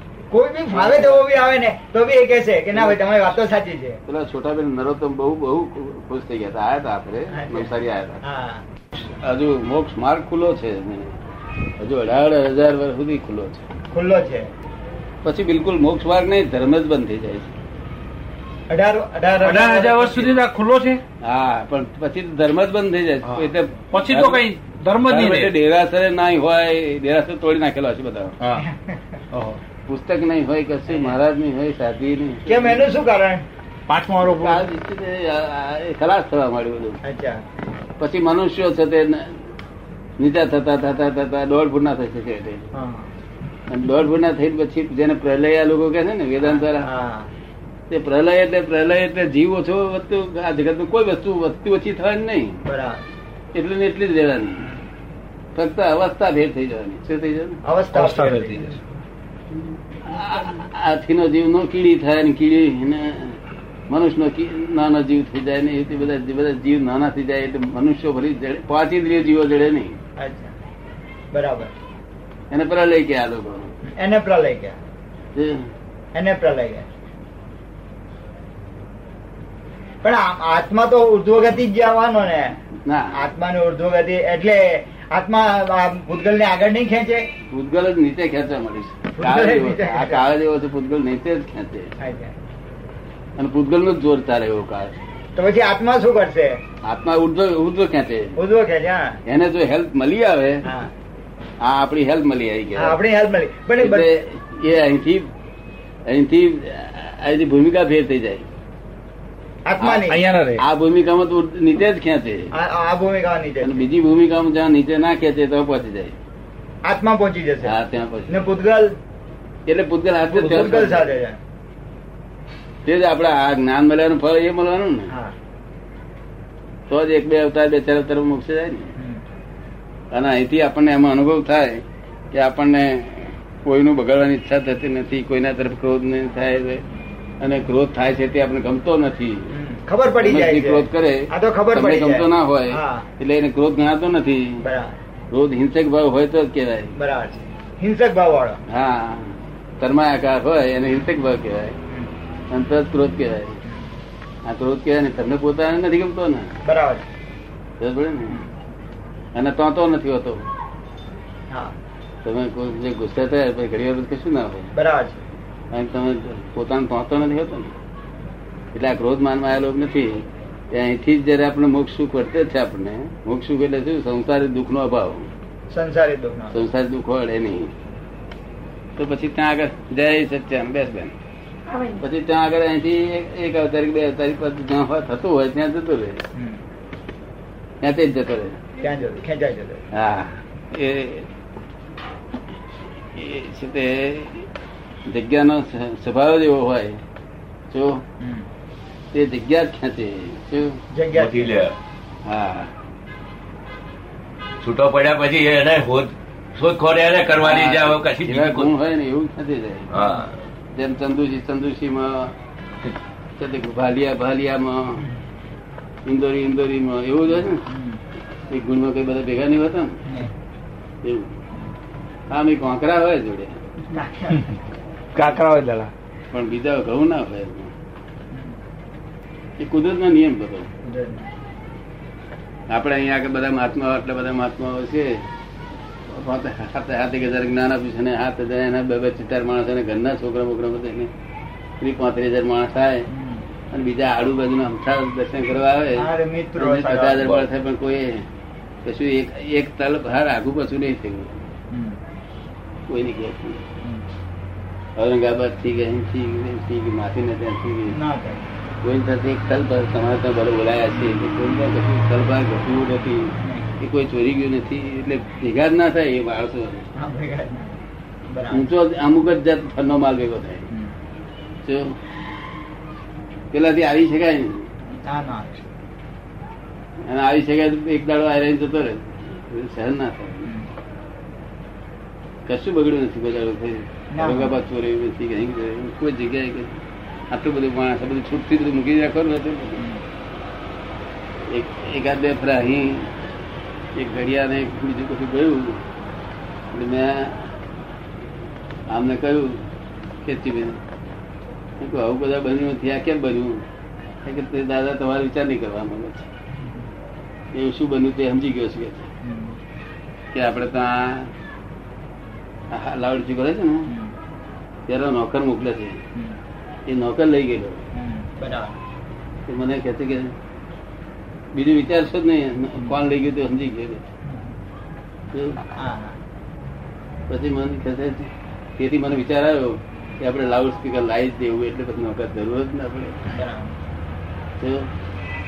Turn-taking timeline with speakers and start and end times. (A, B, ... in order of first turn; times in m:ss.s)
0:00.3-0:04.0 A
0:00.7-0:01.4 B
0:02.7-0:03.1 B
0:04.1-0:08.2 B
0:07.3-0:07.7 A
0:08.2-0:08.6 A
0:08.9-0:11.1 B
0:11.8-0:13.6 B
0:13.9-0:14.5 A
0:15.2-0:17.5 B
0:18.7-0:20.3 A
0:19.4-0:21.0 C
0:21.2-0:24.4 B
0:23.9-0:25.4 C
0:25.1-0:28.4 B
0:28.6-0:29.2 A
0:29.3-0:29.6 C
0:29.9-0:32.8 B
0:30.9-0:31.1 A
0:32.4-0:33.4 A
0:33.9-0:34.6 C
0:34.2-0:37.0 B
0:37.0-0:37.4 A
0:38.0-0:39.4 B
0:40.2-0:42.7 B
0:42.7-0:43.1 A
0:43.7-0:46.9 B
0:46.4-0:47.3 A
0:47.9-0:52.6 B
0:52.6-0:53.0 A
0:53.5-0:54.7 B
0:55.6-0:57.6 B
0:57.6-0:58.8 A
0:57.9-0:58.7 C
1:00.0-1:10.0 B
1:10.2-1:10.5 A
1:11.3-1:11.7 A
1:12.5-1:13.7 B
1:14.0-1:14.8 A
1:15.3-1:15.7 B
1:16.1-1:16.9 A
1:20.0-1:22.6 A
1:22.8-1:23.2 B
1:23.1-1:27.2 A
1:27.5-1:32.0 B
1:29.1-1:30.3 A
1:32.0-1:32.3 A
1:33.4-1:35.0 B
1:35.4-1:36.6 A
1:36.8-1:38.4 B
1:38.4-1:39.2 A
1:39.2-1:40.7 B
1:40.6-1:40.9 A
1:41.6-1:43.0 B
1:42.7-1:44.1 A
1:43.8-1:45.3 B
1:46.1-1:48.5 B
1:49.6-1:50.2 A
1:49.8-1:52.5 B
1:50.1-1:50.6 C
1:52.5-1:53.8 A
1:53.6-1:56.2 B
1:56.8-1:57.7 A
1:57.6-1:58.4 B
1:58.3-1:59.0 A
1:59.7-2:01.1 B
2:00.2-2:01.4 A
2:02.8-2:05.1 B
2:06.9-2:08.9 B
2:10.1-2:16.8 B
2:17.4-2:19.5 B
2:19.5-2:23.1 A
2:20.2-2:24.6 B
2:24.6-2:25.0 A
2:25.3-2:26.9 B
2:27.0-2:28.6 A
2:28.7-2:31.8 B
2:32.5-2:33.6 B
2:34.5-2:36.5 B
2:36.6-2:37.0 A
2:37.8-2:38.4 B
2:39.3-2:40.5 B
2:42.2-2:44.7 B
2:44.7-2:45.2 A
2:45.7-2:47.7 B
2:48.7-2:55.3 B
2:55.7-2:56.6 A
2:56.5-2:57.7 B
2:59.0-3:01.1 B
3:01.8-3:06.2 B
3:06.3-3:06.6 A
3:07.8-3:08.6 B
3:08.8-3:09.8 A
3:09.9-3:11.3 B
3:13.2-3:14.5 B
3:15.1-3:17.0 B
3:17.7-3:18.0 B
3:18.2-3:18.5 A
3:19.1-3:20.8 B
3:20.9-3:21.6 A
3:21.1-3:21.7 D
3:22.2-3:22.7 B
3:24.6-3:28.7 D
3:27.3-3:29.9 B
3:29.9-3:30.3 D
3:30.7-3:32.3 B
3:33.4-3:35.1 B
3:36.0-3:37.7 B
3:37.6-3:38.0 A
3:38.5-3:40.0 B
3:41.0-3:41.3 B
3:42.3-3:43.6 B
3:43.8-3:44.5 A
3:45.1-3:45.9 C
3:46.3-3:47.7 B
3:48.3-3:48.6 A
3:49.6-3:50.7 B
3:50.8-3:51.3 A
3:52.7-3:55.2 B
3:56.1-4:01.1 B
4:01.8-4:03.1 B
4:03.1-4:03.4 A
4:03.7-4:08.3 B
4:06.0-4:07.2 A
4:07.2-4:07.4 D
4:08.8-4:11.4 B
4:11.7-4:12.0 A
4:12.9-4:13.6 B
4:15.0-4:18.0 B
4:17.9-4:18.4 A
4:18.8-4:26.9 B
4:27.0-4:27.8 A
4:28.3-4:28.7 A
4:28.5-4:30.7 B
4:31.6-4:32.0 B
4:33.5-4:34.6 B
4:35.0-4:35.7 A
4:37.0-4:40.5 B
4:42.5-4:46.8 B
4:44.1-4:44.5 A
4:47.3-4:49.8 B
4:51.5-4:53.1 B
4:54.0-4:55.8 B
4:56.7-4:57.6 B
4:58.9-4:59.6 B
5:00.2-5:00.8 B
5:01.8-5:03.6 B
5:04.2-5:06.3 B
5:07.5-5:09.1 B
5:09.2-5:09.6 A
5:10.3-5:11.3 B
5:12.7-5:13.9 B
5:13.9-5:14.1 A
5:14.9-5:16.0 B
5:16.9-5:17.8 B
5:17.9-5:18.8 A
5:19.5-5:20.3 B
5:21.5-5:24.0 B
5:25.3-5:25.6 B
5:25.8-5:26.2 A
5:27.3-5:33.4 B
5:33.3-5:33.8 A
5:34.6-5:34.9 B